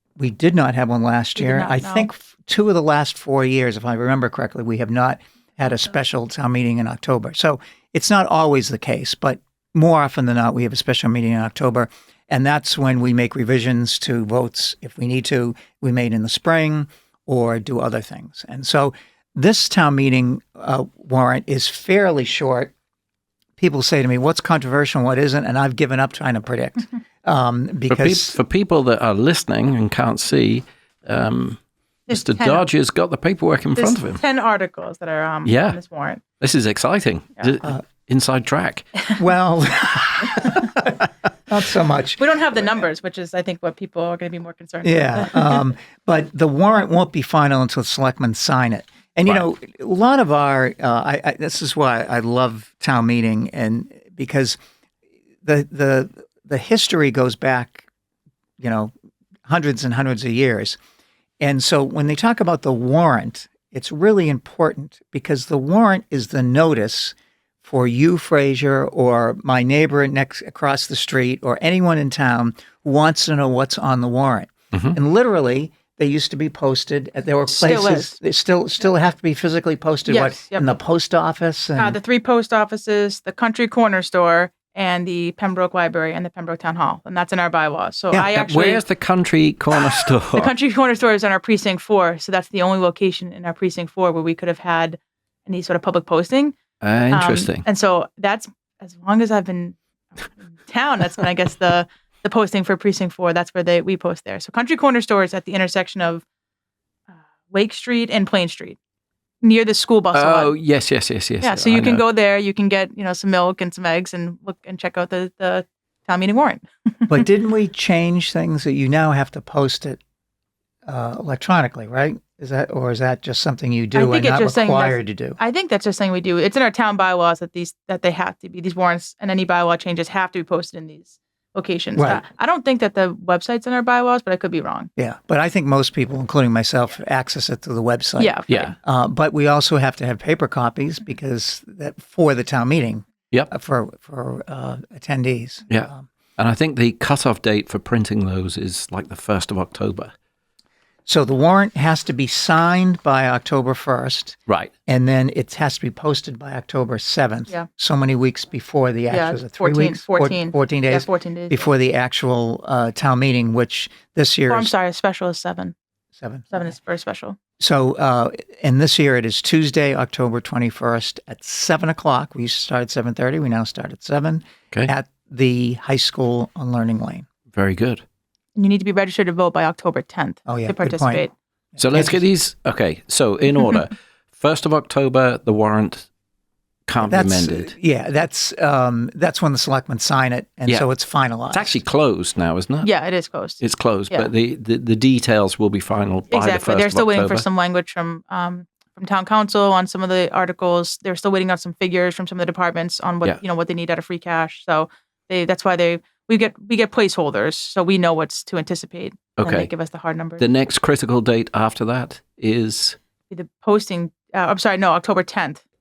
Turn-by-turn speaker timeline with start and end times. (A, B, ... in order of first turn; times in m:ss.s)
0:00.2-0:22.7 A
0:01.4-0:02.1 B
0:23.6-0:28.4 A
0:27.9-0:34.2 C
0:32.1-0:32.6 B
0:33.8-0:36.2 B
0:35.4-0:35.8 C
0:36.4-0:38.9 C
0:39.2-0:42.8 A
0:42.2-0:45.7 B
0:44.8-0:54.6 A
0:55.4-0:57.9 A
0:58.6-0:58.9 A
0:59.5-1:00.8 A
1:01.4-1:22.0 A
1:17.5-1:18.2 B
1:20.1-1:20.8 B
1:21.8-1:28.8 B
1:28.2-1:30.5 C
1:30.3-1:36.6 B
1:36.8-1:37.6 C
1:37.1-1:46.2 B
1:47.5-1:48.8 B
1:49.4-1:50.5 B
1:50.1-1:52.0 C
1:51.4-1:57.3 B
1:57.1-2:00.0 A
2:00.9-2:05.4 A
2:04.0-2:14.9 B
2:12.0-2:12.2 A
2:15.0-2:26.1 A
2:18.2-2:18.8 B
2:18.5-2:18.8 C
2:25.7-2:30.1 C
2:31.1-2:44.7 A
2:39.1-2:41.7 B
2:44.5-2:45.7 B
2:46.2-2:46.7 A
2:46.5-2:47.4 B
2:47.6-2:57.3 A
2:57.5-2:58.0 C
2:58.6-3:01.3 B
3:00.5-3:01.2 A
3:01.8-3:02.2 A
3:01.8-3:06.1 C
3:06.9-3:07.8 C
3:07.0-3:11.8 A
3:11.5-3:12.9 C
3:12.8-3:14.3 B
3:13.6-3:17.5 C
3:16.3-3:30.4 B
3:29.4-3:29.7 C
3:30.4-3:33.0 C
3:33.3-3:35.6 B